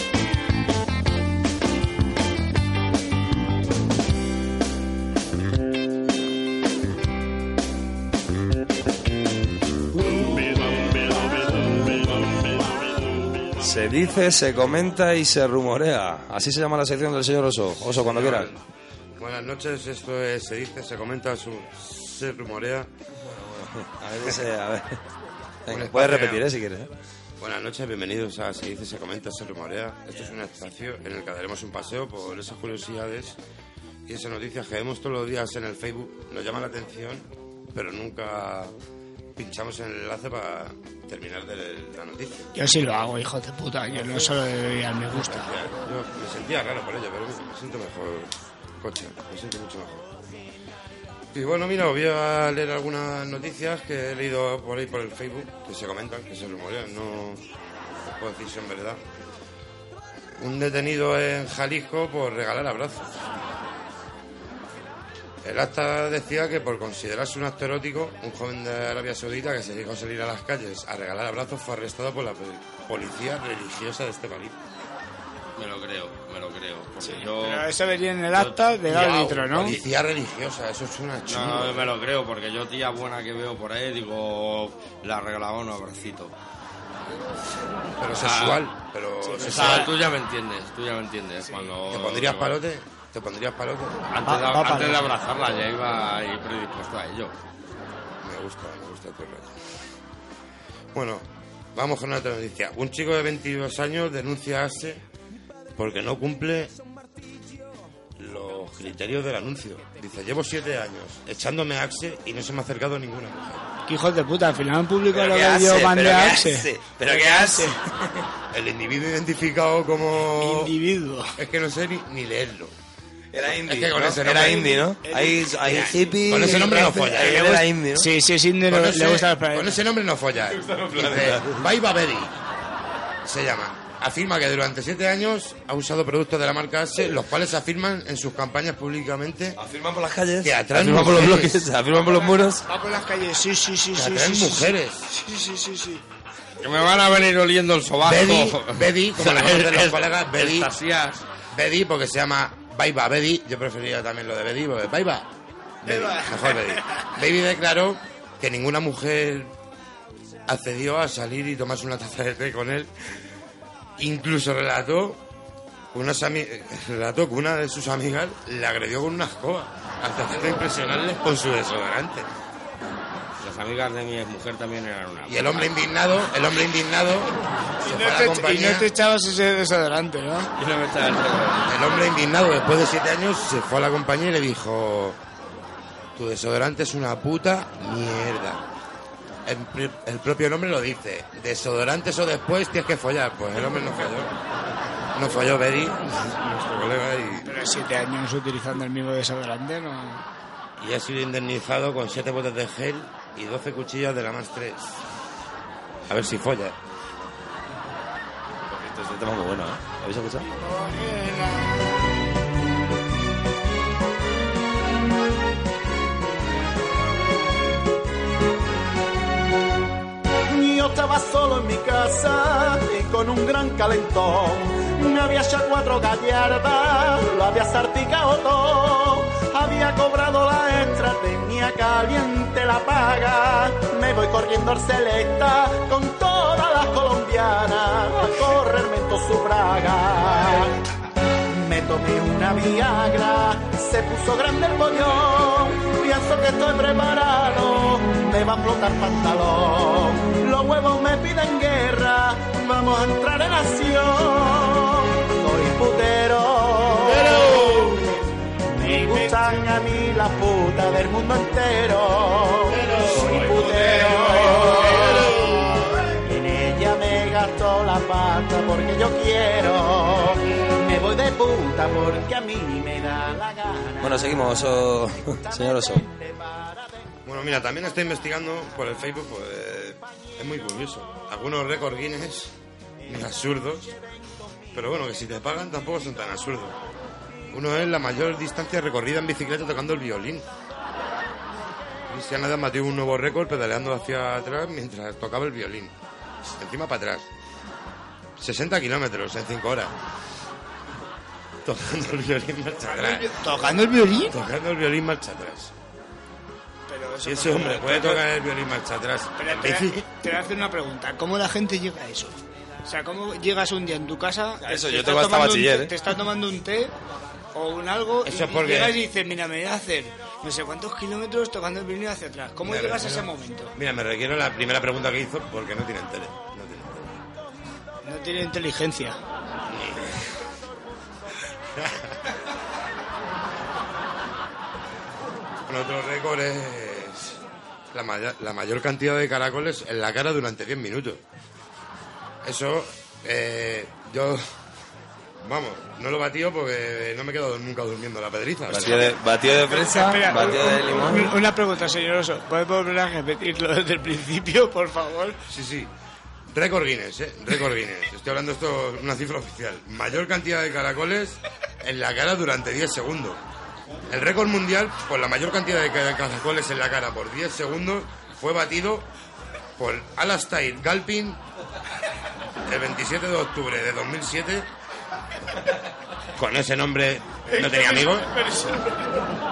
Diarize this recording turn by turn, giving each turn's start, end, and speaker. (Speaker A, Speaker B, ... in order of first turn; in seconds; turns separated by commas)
Speaker A: 13.6-18.6, Speaker B: 18.0-18.6, Speaker B: 19.2-22.9, Speaker A: 23.3-25.0, Speaker A: 25.6-26.9, Speaker B: 25.7-26.5, Speaker B: 27.4-33.4, Speaker B: 34.0-38.7, Speaker B: 39.4-42.5, Speaker C: 42.5-45.5, Speaker B: 43.9-44.3, Speaker B: 45.1-50.1, Speaker B: 51.3-57.4, Speaker B: 58.1-59.0, Speaker B: 60.4-63.2, Speaker B: 65.4-74.6, Speaker D: 75.5-77.7, Speaker C: 77.0-79.8, Speaker D: 78.3-78.7, Speaker B: 78.9-81.9, Speaker D: 81.3-86.3, Speaker B: 88.0-90.0, Speaker D: 88.1-88.6, Speaker C: 89.2-89.6, Speaker D: 89.3-92.6, Speaker B: 91.9-94.0, Speaker D: 94.1-97.3, Speaker C: 94.2-95.1, Speaker B: 98.2-99.6, Speaker B: 100.9-105.0, Speaker B: 105.8-106.8, Speaker B: 108.2-113.6, Speaker C: 113.8-117.8, Speaker A: 115.1-117.8, Speaker B: 118.5-120.7, Speaker C: 120.3-121.4, Speaker B: 121.4-122.7, Speaker A: 123.3-128.1, Speaker B: 123.5-125.0, Speaker C: 125.0-125.8, Speaker B: 125.7-127.6, Speaker C: 127.2-129.8, Speaker B: 128.7-132.3, Speaker A: 130.6-131.6, Speaker B: 133.2-139.6, Speaker A: 139.5-142.7, Speaker B: 140.4-141.7, Speaker C: 142.1-146.0, Speaker B: 143.9-145.1, Speaker D: 146.6-151.2, Speaker B: 148.0-150.7, Speaker B: 151.5-155.3, Speaker B: 155.8-159.5, Speaker C: 155.8-157.0, Speaker B: 160.5-162.9, Speaker B: 164.0-165.2, Speaker B: 165.9-172.3, Speaker D: 173.4-175.7, Speaker B: 175.3-178.9, Speaker C: 177.8-180.5, Speaker D: 180.5-182.1, Speaker B: 181.7-185.2, Speaker B: 186.1-188.6, Speaker B: 189.4-194.3, Speaker B: 195.1-197.6, Speaker C: 197.3-200.2, Speaker B: 200.8-205.0, Speaker B: 206.1-206.7, Speaker A: 208.7-210.5, Speaker C: 210.6-211.8, Speaker E: 220.5-240.7, Speaker E: 241.5-257.9, Speaker E: 258.8-265.5, Speaker E: 266.2-276.9, Speaker A: 274.0-276.1, Speaker B: 277.2-282.5, Speaker B: 283.1-283.9, Speaker B: 284.7-286.8, Speaker B: 287.5-290.4, Speaker B: 292.1-295.9, Speaker B: 296.6-297.2, Speaker B: 298.4-299.9, Speaker B: 301.6-303.4, Speaker C: 302.9-304.4, Speaker B: 304.3-305.7, Speaker C: 306.9-308.3, Speaker B: 307.2-310.0, Speaker C: 309.4-316.9, Speaker A: 314.6-315.9, Speaker C: 317.5-323.7, Speaker B: 318.2-319.0, Speaker B: 322.6-327.2, Speaker C: 328.0-329.2, Speaker B: 329.7-330.2, Speaker B: 335.7-337.4, Speaker B: 337.9-341.2, Speaker B: 342.4-344.4, Speaker B: 345.4-349.1, Speaker A: 348.7-351.4, Speaker C: 349.0-355.4, Speaker B: 355.5-355.9, Speaker B: 356.5-363.4, Speaker B: 364.1-369.1, Speaker B: 369.8-371.4, Speaker B: 372.6-374.7, Speaker B: 376.4-378.3, Speaker C: 377.5-379.1